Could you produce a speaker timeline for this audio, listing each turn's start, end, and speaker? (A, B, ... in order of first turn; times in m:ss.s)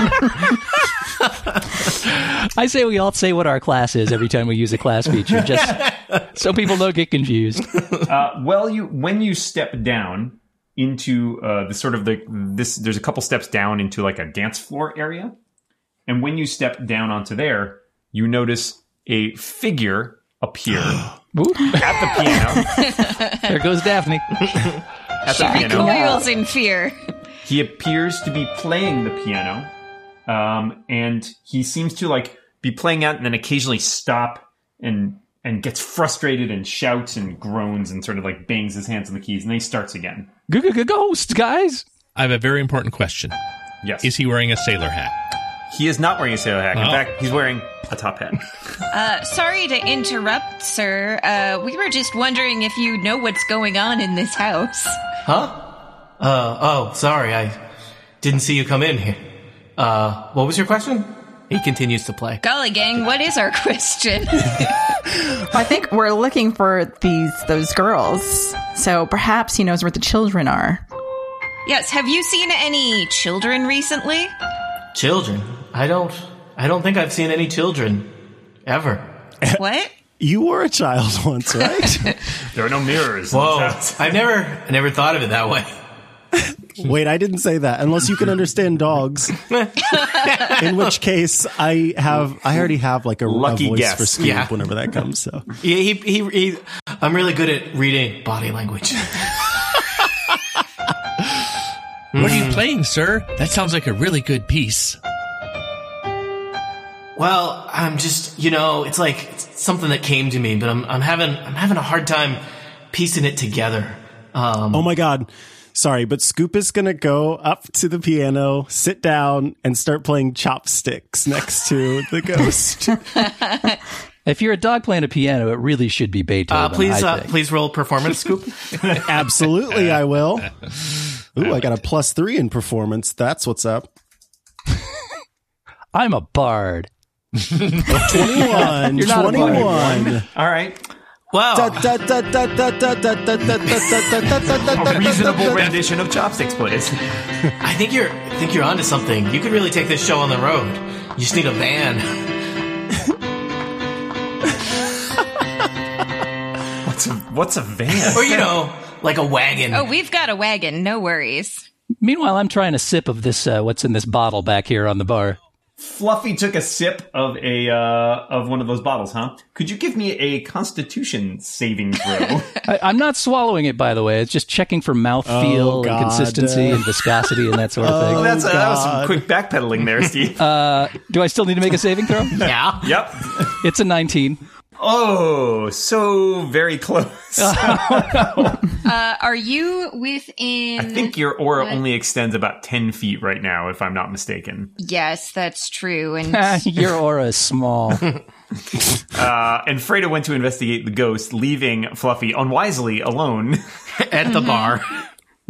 0:02.2-0:07.7 A
0:08.0-0:15.4 B
0:16.1-0:21.1 B
0:21.4-0:21.9 A
0:21.7-0:22.8 B
0:22.8-0:23.5 C
0:23.5-0:24.4 A
0:25.2-0:26.1 B
0:25.3-0:27.0 C
0:25.5-0:25.8 A
0:27.4-0:29.7 B
0:30.3-0:40.3 B
0:40.5-0:41.8 A
0:42.2-0:43.4 D
0:43.8-0:44.1 B
0:44.0-0:45.1 D
0:45.7-0:48.5 B
0:46.8-0:47.0 D
0:48.9-0:55.0 C
0:55.3-0:55.6 E
0:56.2-0:57.6 E
0:58.2-0:59.2 E
0:59.8-1:02.4 E
1:02.4-1:04.8 C
1:05.5-1:10.8 F
1:11.7-1:14.3 C
1:14.9-1:18.1 E
1:18.7-1:19.1 E
1:19.6-1:19.9 C
1:20.2-1:22.2 G
1:22.5-1:24.1 B
1:23.3-1:25.7 E
1:26.4-1:29.4 G
1:29.5-1:30.9 E
1:30.6-1:35.5 G
1:33.2-1:34.2 B
1:34.2-1:34.5 E
1:35.6-1:39.6 E
1:42.1-1:42.6 E
1:42.2-1:45.0 D
1:47.2-1:54.9 E
1:54.7-2:03.1 G
2:03.2-2:03.8 C
2:04.3-2:07.3 A
2:06.5-2:08.7 E
2:09.0-2:10.6 G
2:11.3-2:13.9 G
2:15.9-2:16.9 A
2:17.9-2:20.3 G
2:18.0-2:20.0 A
2:18.5-2:20.8 B
2:21.3-2:21.9 E
2:21.5-2:25.8 G
2:24.6-2:27.0 B
2:27.6-2:32.2 E
2:36.8-2:38.6 B
2:38.1-2:39.9 E
2:39.7-2:41.6 C
2:42.0-2:45.4 A
2:45.8-2:52.5 B
2:52.7-2:58.3 A
2:55.2-2:56.9 G
2:57.8-2:59.3 G
2:58.1-3:00.5 B
3:00.4-3:02.4 A
3:02.4-3:02.9 E
3:02.4-3:03.5 B
3:03.6-3:04.4 A
3:04.8-3:08.6 B
3:07.4-3:08.6 A
3:08.8-3:11.8 C
3:10.8-3:14.7 B
3:14.8-3:16.7 C
3:16.3-3:18.1 A
3:19.1-3:23.6 B
3:24.0-3:25.0 E
3:24.2-3:24.8 C